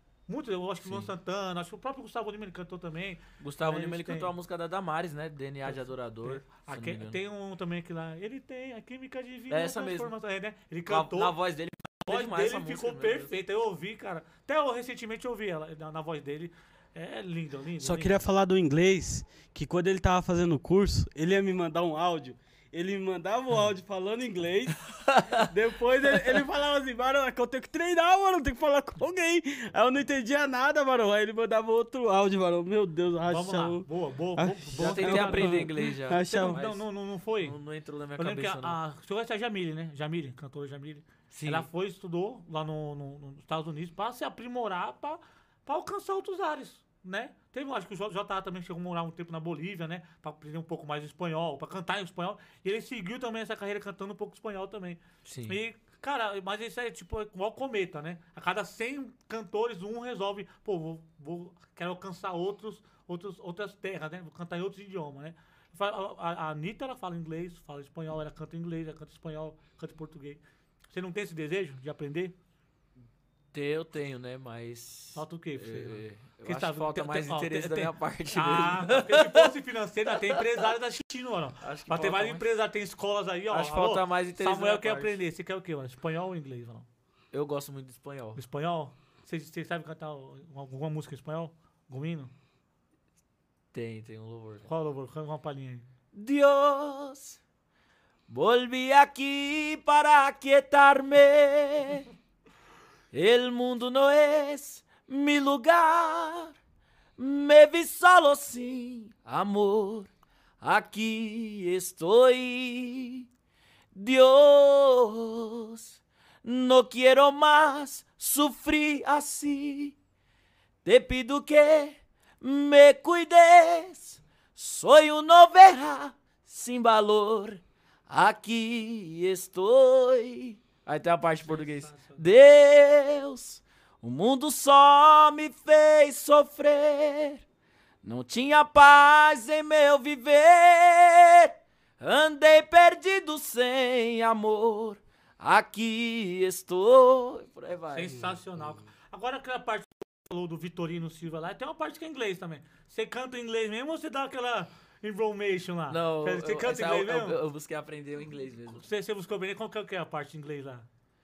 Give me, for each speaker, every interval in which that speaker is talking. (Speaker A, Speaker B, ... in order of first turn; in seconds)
Speaker A: 0.3-4.3, 5.7-11.3, 12.1-18.2, 33.3-37.6, 38.2-70.4, 70.9-72.3, 75.2-86.9, 88.4-92.3, 94.7-95.9, 131.4-132.3, 147.9-157.4, 158.8-160.9
Speaker B: 0.8-1.1, 3.4-7.2, 9.5-10.1, 10.9-13.4, 25.0-25.5, 34.8-36.9, 37.4-38.8, 41.3-41.7, 55.2-55.6, 73.5-79.5, 80.1-80.4, 81.6-82.6, 83.5-85.2, 87.3-88.4, 93.7-94.7, 96.1-97.4, 98.3-102.1, 103.1-106.5, 107.2-110.1, 110.6-113.3, 113.9-120.0, 120.8-137.4, 138.0-148.3, 155.9-158.9
Speaker C: 17.8-24.8, 25.4-36.6